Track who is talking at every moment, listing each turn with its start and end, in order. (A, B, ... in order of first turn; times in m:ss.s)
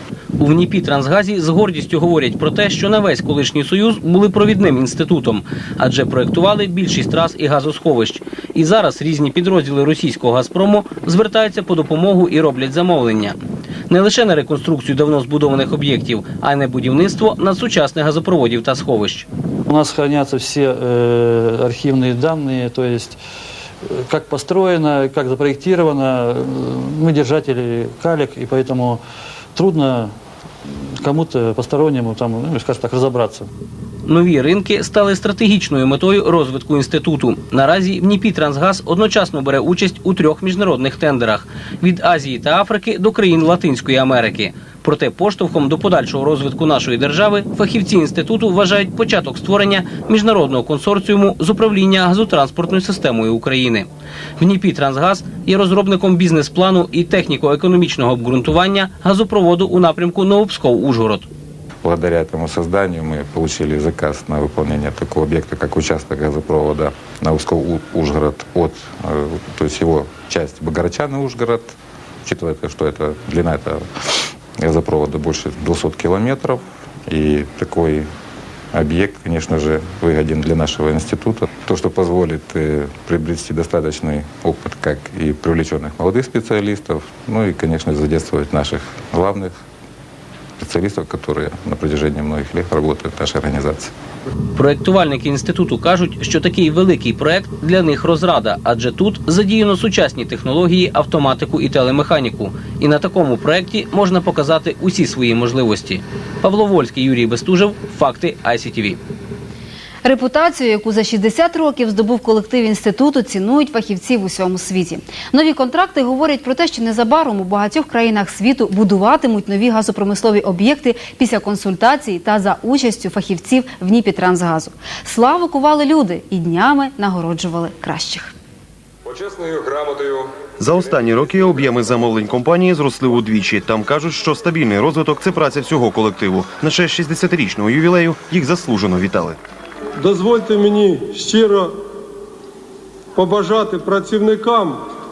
0:00.4-0:13.4 A
0:13.9-0:19.3 A
0:19.7-0:23.2 B
0:23.9-0:29.0 B
0:29.6-0:30.1 B
0:31.0-0:33.5 B
0:34.1-0:53.9 A
0:54.4-1:01.3 A
1:01.8-1:13.8 C
1:14.6-1:18.1 C
1:18.7-1:29.5 C
1:30.6-1:33.9 C
1:34.6-1:49.0 A
1:50.0-2:08.3 D
2:10.6-2:19.4 E
2:20.0-2:21.7 F
2:23.2-2:24.8 F